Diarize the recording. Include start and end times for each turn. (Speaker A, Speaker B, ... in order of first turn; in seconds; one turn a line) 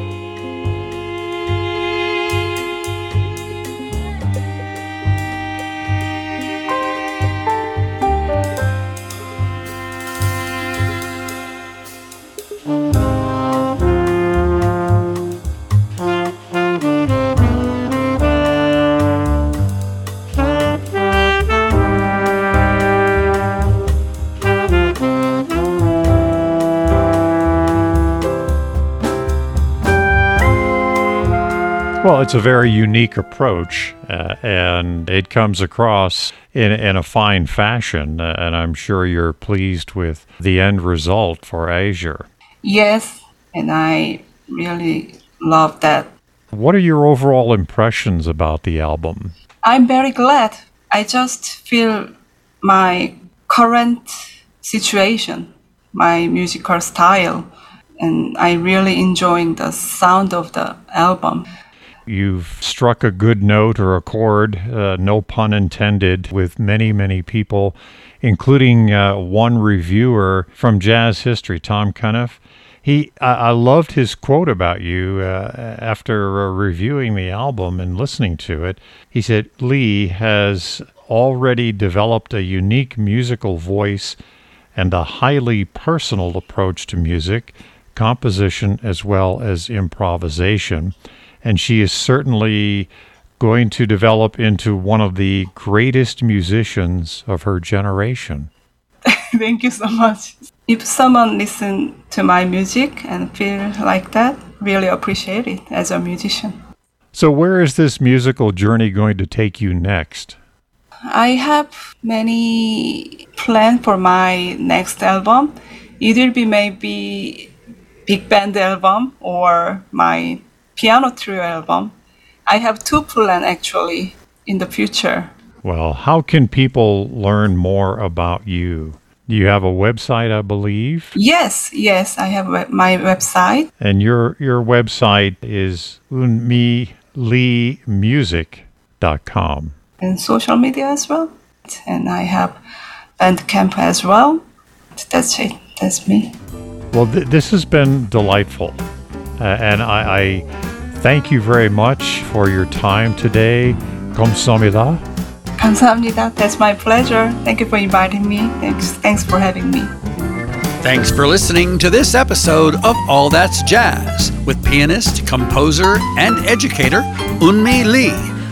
Speaker A: 32.0-42.3
Speaker B: 42.6-46.1
Speaker A: 46.5-49.3
Speaker B: 49.6-52.1
Speaker B: 52.6-57.5
Speaker B: 58.0-61.5
Speaker A: 62.1-84.2
Speaker A: 84.7-98.5
Speaker B: 99.0-106.6
Speaker A: 107.1-110.4
Speaker B: 111.1-117.5
Speaker B: 118.1-121.9
Speaker B: 122.5-125.3
Speaker A: 125.6-131.1
Speaker B: 131.1-133.7
Speaker A: 133.8-139.7
Speaker B: 140.0-142.6
Speaker B: 143.2-144.4
Speaker B: 144.9-146.4
Speaker A: 146.9-148.8
Speaker A: 149.4-155.0
Speaker B: 155.6-159.9
Speaker C: 160.8-168.3